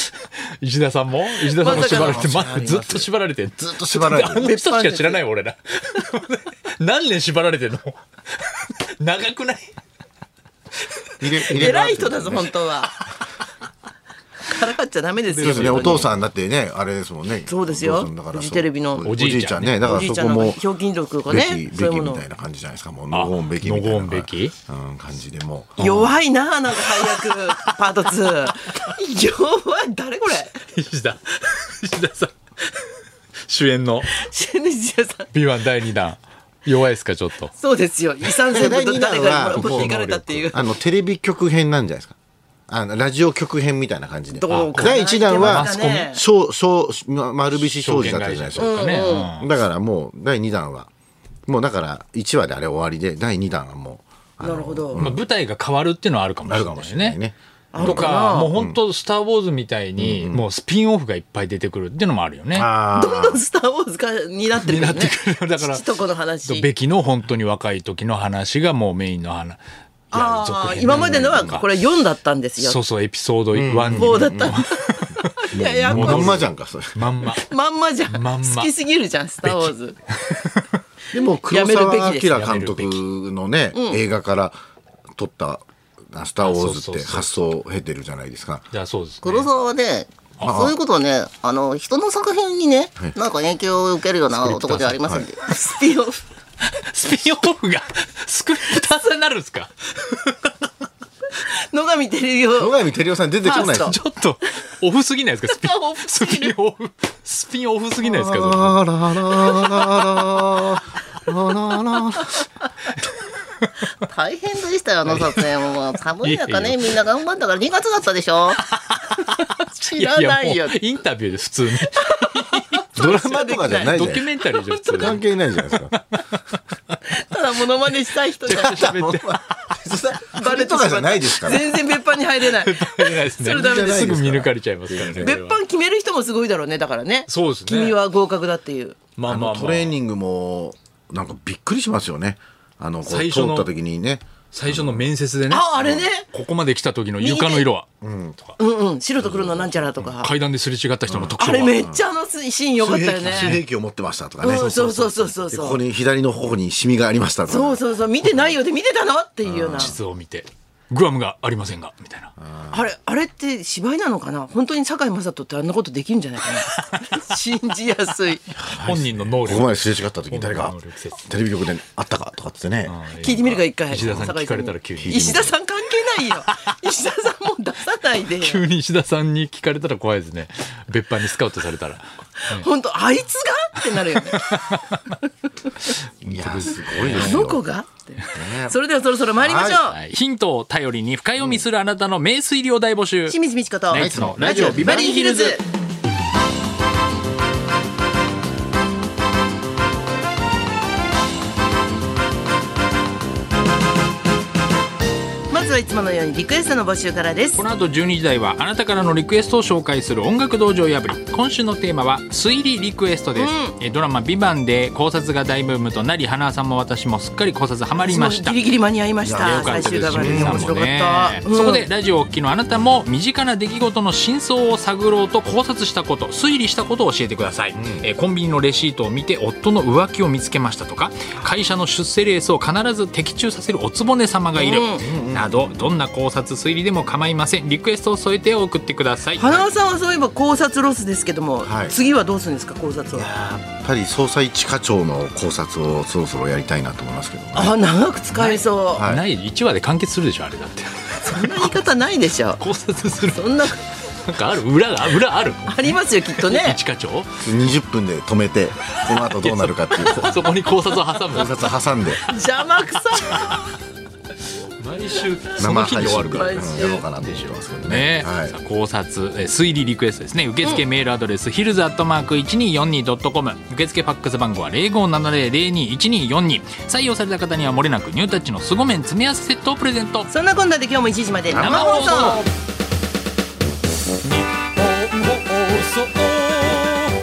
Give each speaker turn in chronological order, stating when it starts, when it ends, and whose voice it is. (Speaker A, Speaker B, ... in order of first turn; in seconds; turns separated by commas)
Speaker A: 0.6-9.7, Speaker B: 1.5-3.0, Speaker C: 1.6-3.0, Speaker C: 3.6-4.5, Speaker B: 4.3-5.2, Speaker C: 11.2-12.5, Speaker B: 11.5-13.0, Speaker B: 14.4-16.1, Speaker A: 15.3-16.1, Speaker C: 15.4-20.6, Speaker B: 17.5-19.1, Speaker A: 19.0-19.9, Speaker B: 19.8-22.2, Speaker C: 21.3-25.9, Speaker A: 23.1-24.5, Speaker B: 25.8-30.6, Speaker A: 25.8-26.1, Speaker A: 27.1-27.8, Speaker A: 30.7-34.2, Speaker B: 34.1-35.3, Speaker A: 35.3-37.5, Speaker B: 37.5-40.6, Speaker C: 38.5-40.0, Speaker A: 39.5-40.5, Speaker C: 40.5-42.1, Speaker C: 42.7-50.9, Speaker B: 44.3-46.2, Speaker A: 44.5-46.1, Speaker A: 47.5-49.5, Speaker B: 48.6-49.3, Speaker C: 51.5-55.2, Speaker B: 54.4-55.1, Speaker A: 54.9-57.2, Speaker C: 56.4-58.8, Speaker B: 57.7-58.5, Speaker A: 57.8-62.7, Speaker C: 60.0-60.4, Speaker C: 62.5-63.4, Speaker B: 62.9-66.7, Speaker A: 64.6-65.8, Speaker A: 66.4-69.6, Speaker A: 70.1-71.7, Speaker B: 70.1-72.8, Speaker C: 70.7-71.6, Speaker A: 72.6-77.5, Speaker C: 73.5-74.6, Speaker B: 73.9-76.5, Speaker C: 75.5-77.1, Speaker B: 77.3-80.0, Speaker A: 78.1-78.7, Speaker A: 79.4-80.7, Speaker C: 81.1-84.5, Speaker B: 81.5-82.3, Speaker A: 82.2-83.0, Speaker B: 83.7-84.0, Speaker C: 85.1-88.7, Speaker A: 86.4-87.4, Speaker A: 88.7-89.5, Speaker D: 89.2-95.3, Speaker A: 90.4-90.7, Speaker C: 90.4-90.8, Speaker A: 94.3-95.2, Speaker C: 94.9-95.3, Speaker B: 95.3-96.2, Speaker A: 96.6-100.7, Speaker B: 101.4-102.8, Speaker C: 102.5-104.0, Speaker B: 103.4-104.0, Speaker A: 103.5-108.8, Speaker B: 105.5-106.5, Speaker C: 108.0-112.3, Speaker A: 113.0-113.9, Speaker D: 114.1-118.5, Speaker B: 114.9-116.2, Speaker A: 115.1-117.0, Speaker A: 118.6-123.1, Speaker B: 119.6-120.8, Speaker B: 121.8-125.2, Speaker C: 123.0-124.2, Speaker A: 123.8-127.0, Speaker C: 125.0-125.9, Speaker B: 127.1-128.9, Speaker A: 128.4-129.3, Speaker C: 128.4-131.8, Speaker B: 130.3-134.0, Speaker A: 132.4-135.6, Speaker C: 133.4-135.4, Speaker B: 135.2-139.0, Speaker A: 137.3-138.0, Speaker A: 139.2-139.9, Speaker C: 139.3-145.1, Speaker A: 143.1-143.7, Speaker A: 144.5-145.7, Speaker B: 145.5-146.3, Speaker C: 145.8-146.1, Speaker A: 146.2-147.9, Speaker B: 147.2-147.7, Speaker C: 148.0-148.5, Speaker B: 148.6-150.3, Speaker C: 149.2-149.9, Speaker A: 150.0-151.9, Speaker C: 151.1-152.0, Speaker B: 151.4-153.6, Speaker C: 152.8-154.7, Speaker A: 153.2-153.6, Speaker B: 154.4-155.8, Speaker A: 154.5-155.7, Speaker C: 155.5-157.8, Speaker B: 157.5-160.0, Speaker C: 159.4-160.0, Speaker A: 159.7-162.3, Speaker C: 162.4-162.9, Speaker B: 162.7-168.5, Speaker A: 166.7-167.2, Speaker C: 168.6-173.0, Speaker A: 168.6-171.3, Speaker A: 172.8-175.5, Speaker B: 173.2-178.6, Speaker C: 173.9-174.3, Speaker C: 174.9-175.5, Speaker A: 176.5-176.7, Speaker A: 178.4-182.7, Speaker B: 182.4-184.4, Speaker A: 184.1-185.2, Speaker C: 186.2-187.6, Speaker A: 186.2-187.5, Speaker B: 187.0-190.0, Speaker C: 188.3-188.8, Speaker C: 189.4-189.8, Speaker A: 189.9-193.4, Speaker C: 191.4-191.6, Speaker B: 193.3-195.6, Speaker A: 193.9-195.6, Speaker C: 193.9-195.2, Speaker B: 205.5-207.6, Speaker A: 207.6-218.6, Speaker B: 213.3-213.7, Speaker B: 218.0-221.8, Speaker C: 219.2-220.8, Speaker A: 219.4-239.4, Speaker C: 227.7-228.1, Speaker B: 234.6-235.1, Speaker C: 234.9-235.9, Speaker B: 239.4-243.3, Speaker C: 241.6-241.9, Speaker C: 243.2-247.8, Speaker B: 247.5-249.1, Speaker A: 248.3-251.8, Speaker C: 248.9-249.2, Speaker B: 251.2-252.6, Speaker A: 252.6-257.3, Speaker B: 253.2-253.8, Speaker B: 255.7-256.8, Speaker C: 257.4-260.4, Speaker A: 258.9-261.7, Speaker C: 261.3-262.2, Speaker B: 262.2-263.6, Speaker A: 263.3-263.6, Speaker A: 264.8-280.3, Speaker C: 265.6-268.6, Speaker B: 265.6-267.0, Speaker B: 280.3-282.4, Speaker A: 281.5-282.5, Speaker A: 284.5-286.9